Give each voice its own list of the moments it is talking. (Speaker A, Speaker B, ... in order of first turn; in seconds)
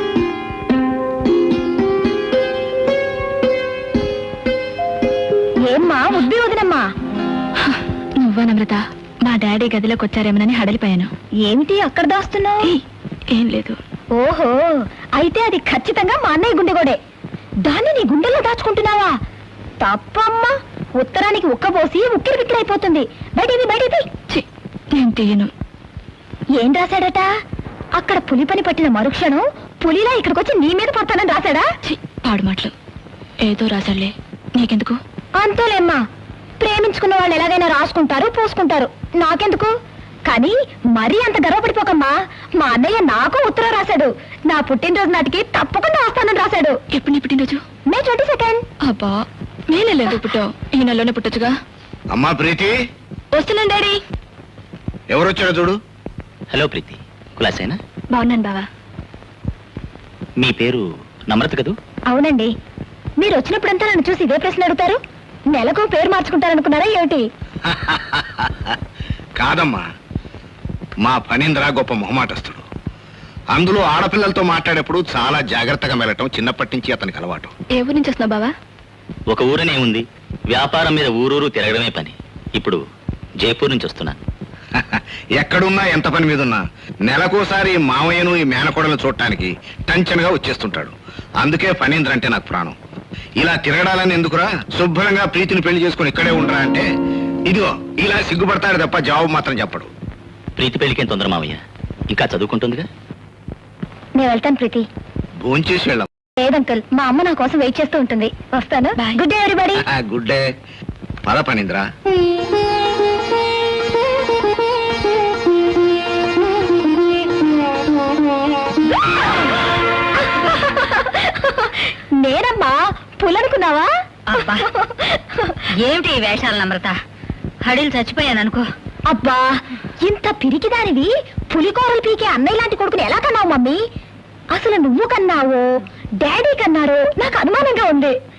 Speaker A: 5.7-6.8, 11.4-12.7, 14.2-14.5, 15.2-17.0, 17.7-19.1, 19.8-24.0, 26.6-27.3, 28.0-31.6, 35.4-36.0, 36.6-39.7, 40.3-46.8, 47.9-48.6, 62.1-62.5, 63.2-65.0, 65.5-67.2, 104.2-104.8, 106.4-109.8, 120.3-123.9, 124.4-125.5, 129.1-133.8, 134.5-135.6, 136.2-138.2
Speaker B: 7.6-11.1, 13.3-13.8, 25.0-25.5, 31.9-32.7, 33.5-35.0, 46.9-47.6, 48.8-49.1, 49.7-51.5, 53.3-54.0, 58.1-58.7, 77.8-78.5
Speaker C: 52.1-52.8, 55.1-55.8, 67.7-68.5, 69.4-69.8, 71.0-72.6, 73.5-77.5, 85.4-92.7, 93.4-96.9, 97.5-99.9, 105.4-106.1, 109.9-110.5, 111.3-111.8
Speaker D: 56.5-57.8, 60.4-61.8, 79.3-82.8, 83.4-84.2, 100.6-101.6, 102.1-102.9
Speaker E: 124.3-124.6, 125.8-127.0, 127.6-128.7